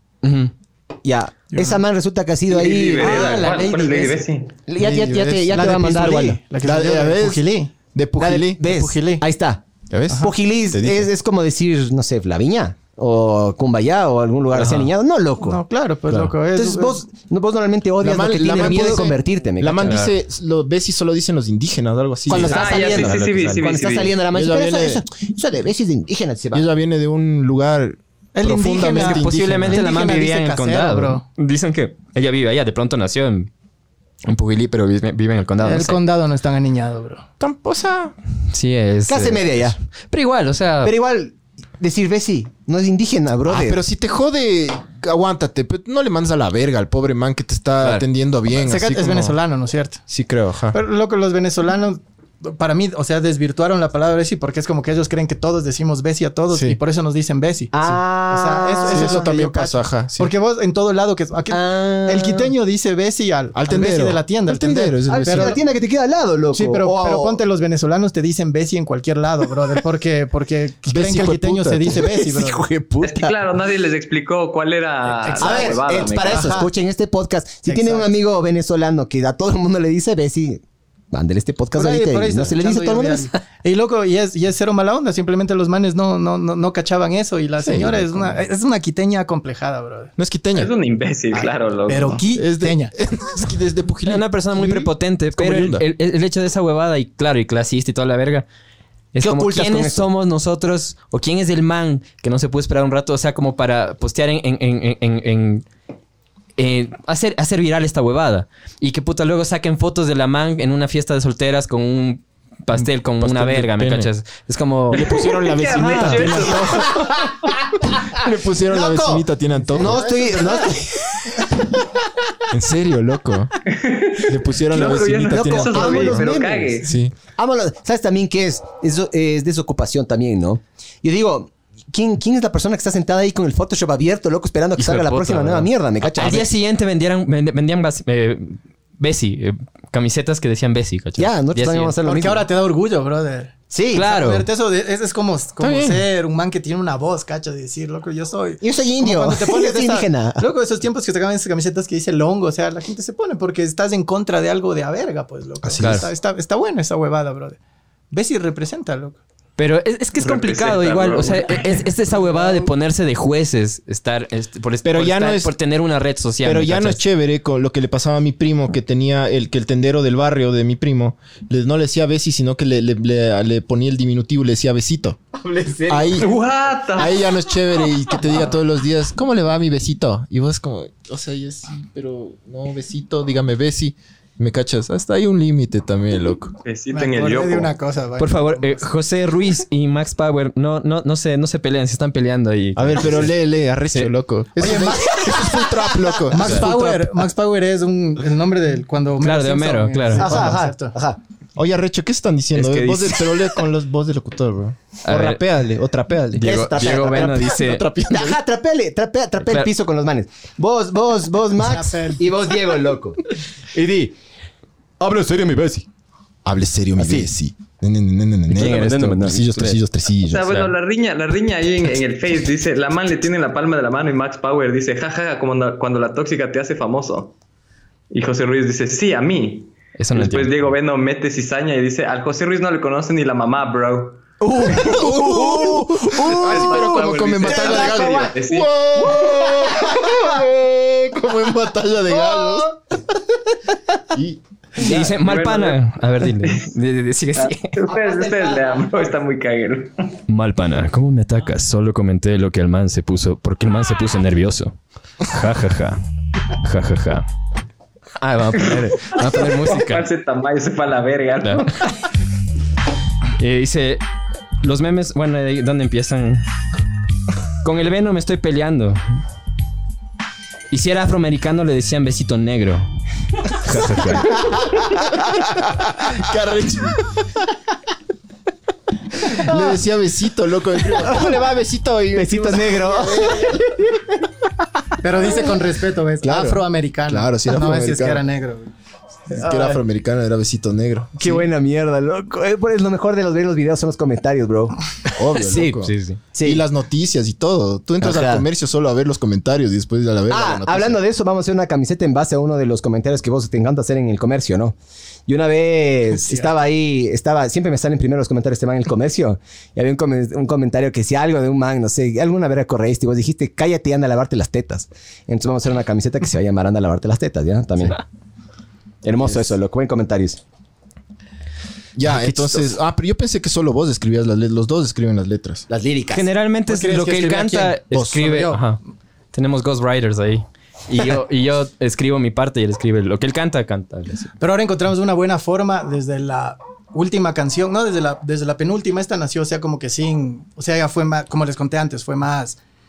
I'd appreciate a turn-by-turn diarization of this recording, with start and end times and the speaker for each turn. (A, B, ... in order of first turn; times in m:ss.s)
0:00.2-0:00.5 A
0:01.0-0:03.6 B
0:01.5-0:01.8 C
0:02.5-0:04.5 D
0:03.0-0:04.2 C
0:04.7-0:06.4 B
0:04.8-0:05.6 E
0:05.5-0:07.8 C
0:06.6-0:08.6 E
0:08.2-0:15.6 B
0:08.6-0:09.2 C
0:09.9-0:11.1 E
0:14.5-0:14.9 A
0:15.4-0:17.0 C
0:16.5-0:20.0 B
0:18.0-0:22.6 E
0:19.8-0:20.1 A
0:22.3-0:26.6 B
0:22.3-0:23.6 A
0:22.4-0:24.2 D
0:24.3-0:25.0 E
0:26.5-0:30.0 E
0:28.4-0:31.2 C
0:28.9-0:33.5 A
0:34.2-0:36.0 A
0:35.6-0:37.2 C
0:37.4-0:38.1 E
0:38.5-0:40.9 A
0:39.1-0:39.8 B
0:40.8-0:43.8 B
0:43.5-0:49.4 E
0:48.5-0:50.0 C
0:50.1-0:50.8 E
0:50.7-1:05.6 C
0:56.5-0:56.8 E
0:57.7-0:59.4 B
0:58.8-1:00.3 E
1:01.5-1:02.5 B
1:03.5-1:05.6 E
1:05.1-1:07.4 B
1:06.5-1:12.6 C
1:10.9-1:12.0 E
1:12.0-1:13.4 B
1:13.0-1:16.6 D
1:15.2-1:16.7 C
1:15.3-1:23.3 B
1:17.7-1:18.1 C
1:21.8-1:30.1 C
1:27.6-1:28.4 E
1:30.2-1:30.7 E
1:30.6-1:32.2 D
1:31.3-1:32.9 C
1:32.3-1:35.9 E
1:34.0-1:38.5 A
1:39.1-1:45.6 A
1:39.2-1:40.1 B
1:46.6-1:56.5 A
1:52.8-1:54.1 E
1:54.9-1:57.3 E
1:55.1-1:57.1 D
1:58.1-2:00.2 E
1:58.7-2:01.4 B
2:02.5-2:03.5 E
2:03.7-2:06.9 D
2:04.3-2:06.3 E
2:04.7-2:16.5 B
2:06.8-2:07.2 E
2:14.8-2:21.9 A
2:21.2-2:22.5 B
2:22.0-2:37.6 C
2:23.7-2:24.1 B
2:23.9-2:24.4 A
2:25.6-2:26.0 E
2:28.6-2:30.5 B
2:35.7-2:36.0 E
2:35.8-2:36.1 A
2:38.1-2:39.2 C
2:39.6-2:47.0 A
2:40.2-2:41.9 D
2:42.2-2:42.7 C
2:44.8-2:45.5 E
2:46.4-2:55.2 E
2:55.4-2:56.2 B
2:55.9-2:56.3 E
2:56.2-2:57.2 D
2:56.9-3:06.6 E
3:06.6-3:07.7 D
3:06.9-3:08.9 C
3:08.2-3:13.3 A
3:12.8-3:17.1 E
3:14.6-3:15.7 C
3:16.3-3:20.9 C
3:19.2-3:20.5 A
3:20.2-3:21.2 B
3:21.6-3:26.5 E
3:22.6-3:23.1 A
3:25.0-3:25.4 A
3:26.3-3:27.9 A
3:26.4-3:34.2 B
3:27.2-3:28.4 E
3:29.4-3:29.7 A
3:31.6-3:32.3 C
3:35.0-3:35.9 B
3:36.4-3:40.7 E
3:37.0-3:37.3 B
3:38.5-3:39.8 B
3:40.3-3:47.3 D
3:48.1-3:54.2 D
3:50.0-3:50.7 A
3:54.4-3:58.3 B
3:54.5-4:02.8 E
3:56.2-3:58.7 D
3:59.0-4:00.3 B
4:02.1-4:02.7 B
4:04.1-4:04.9 E
4:04.8-4:07.7 A
4:05.0-4:06.7 D
4:07.4-4:10.0 D
4:08.0-4:08.5 B
4:10.3-4:16.0 A
4:16.6-4:17.3 A
4:18.2-4:20.1 A
4:19.3-4:22.0 D
4:23.4-4:24.0 A
4:24.6-4:26.4 A
4:27.6-4:29.0 A
4:30.7-4:32.8 A
4:33.5-4:34.4 A
4:35.5-4:37.1 E
4:39.2-4:43.8 E
4:41.0-4:41.4 B
4:42.1-4:43.8 B
4:45.0-4:48.7 C
4:46.2-4:48.2 E
4:49.3-4:51.4 E
4:49.4-4:49.8 B
4:51.2-4:54.8 B
4:55.2-5:01.0 E
4:55.4-4:56.2 A
4:56.4-4:56.6 B
4:58.0-4:58.5 B
5:00.3-5:04.8 B
5:05.3-5:18.0 B
5:06.2-5:06.6 C
5:19.0-5:20.4 B
5:22.0-5:25.7 E
5:22.2-5:22.6 B
5:25.7-5:26.3 B
5:26.1-5:28.8 A
5:26.7-5:28.6 C
5:27.9-5:28.2 E
5:29.3-5:34.3 A
5:34.4-5:42.6 C